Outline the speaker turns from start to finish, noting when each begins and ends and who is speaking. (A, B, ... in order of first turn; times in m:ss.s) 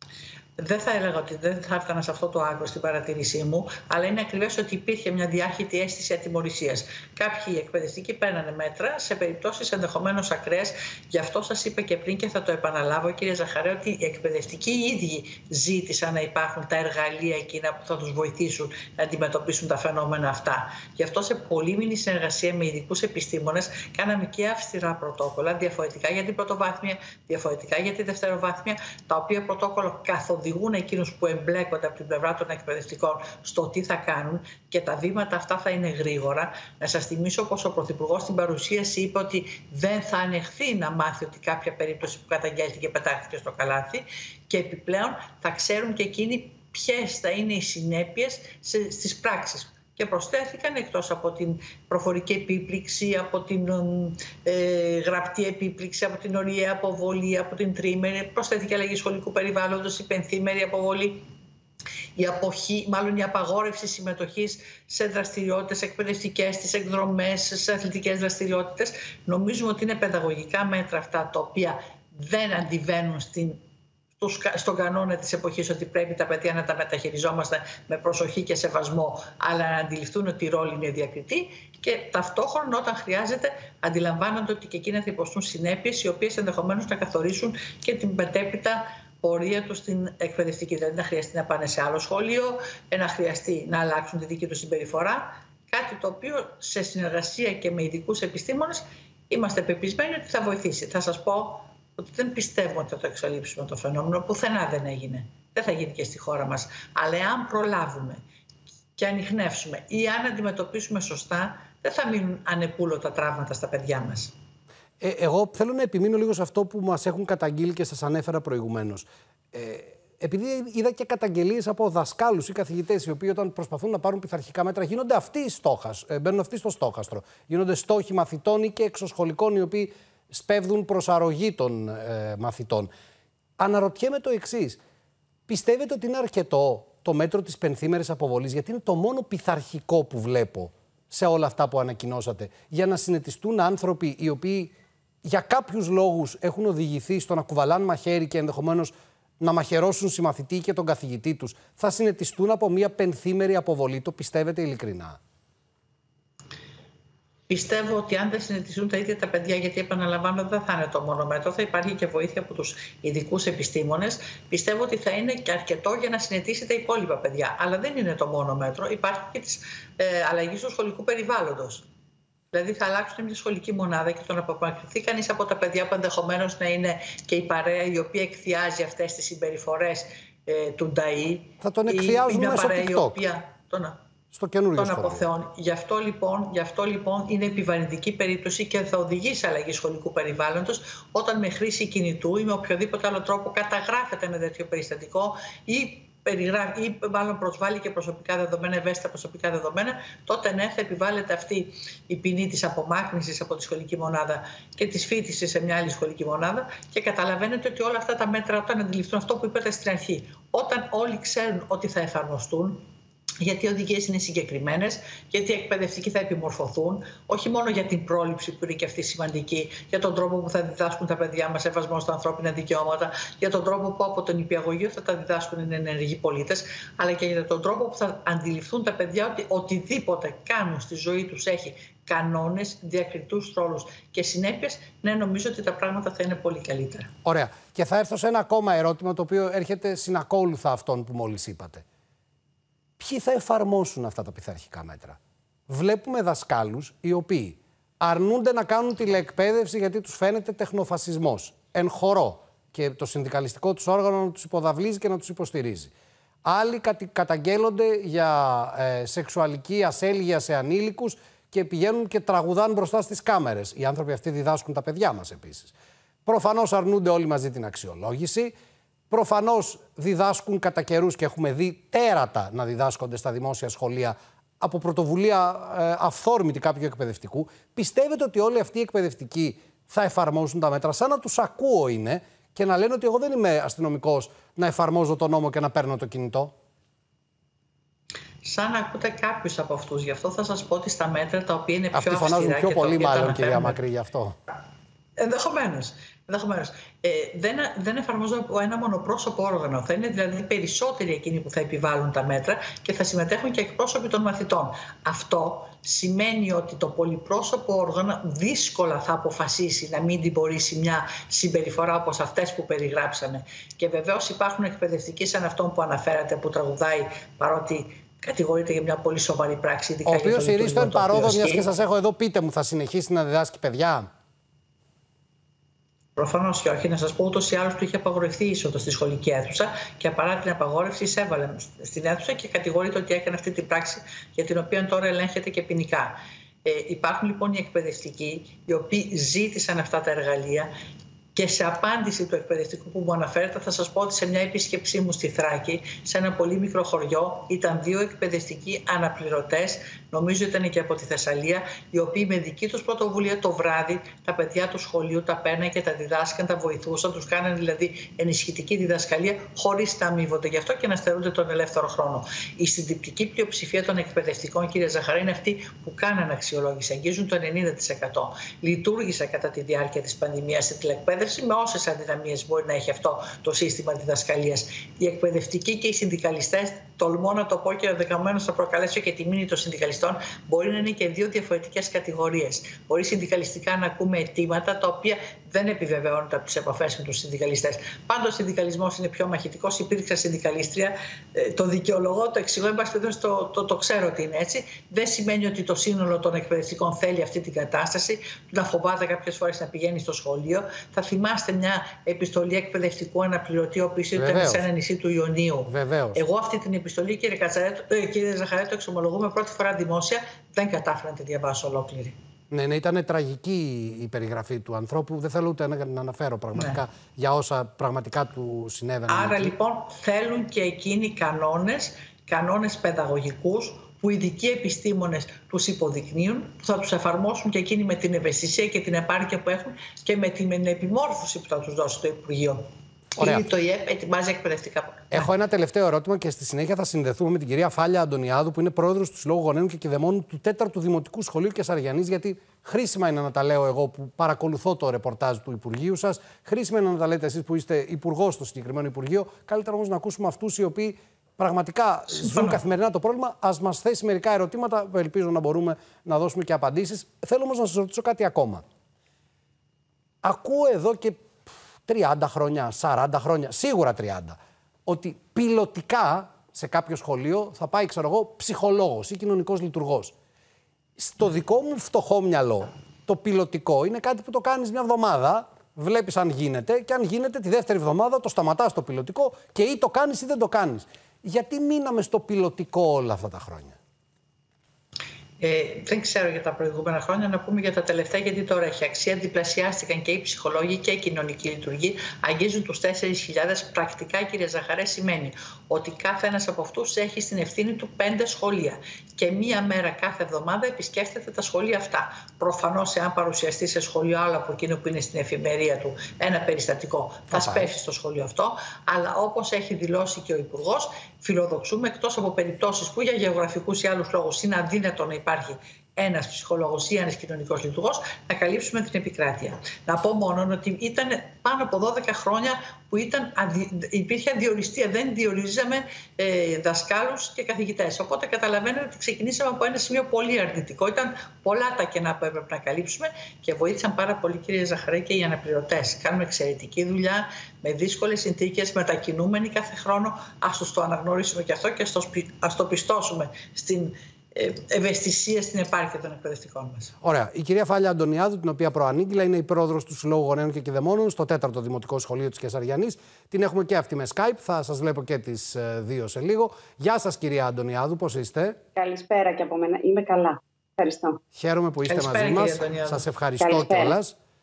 0:00.6-1:01.2 A
1:02.2-1:13.6 A
1:14.2-1:48.2 A
1:49.0-1:54.3 A
1:55.0-2:12.9 B
2:13.6-2:14.8 B
2:15.5-2:24.7 B
2:25.2-2:35.2 B
2:37.5-2:51.8 A
2:52.5-3:04.0 A
3:01.6-3:03.2 B
3:04.3-3:05.3 B
3:04.8-3:32.8 A
3:33.4-3:57.1 A
3:57.2-4:01.8 B
4:03.0-4:15.9 B
4:16.4-4:25.7 B
4:26.2-4:28.5 B
4:29.1-4:46.5 B
4:48.4-4:53.8 A
4:51.9-4:54.3 B
4:55.2-5:21.6 A
5:20.0-5:24.1 B
5:26.2-5:40.7 A
5:41.3-6:52.1 A
6:44.1-6:44.7 B
6:45.7-6:46.2 B
6:52.5-6:59.5 B
6:59.1-7:12.6 A
7:13.2-7:15.3 A
7:13.2-7:13.4 B
7:15.1-7:38.6 B
7:32.1-7:32.6 A
7:40.2-7:41.3 B
7:41.8-7:50.1 B
7:51.0-8:03.8 B
8:05.4-9:06.9 A
8:27.3-8:27.7 B
9:07.0-9:18.6 B
9:18.8-9:21.2 C
9:21.3-9:24.2 B
9:21.8-9:23.0 A
9:23.4-9:23.9 C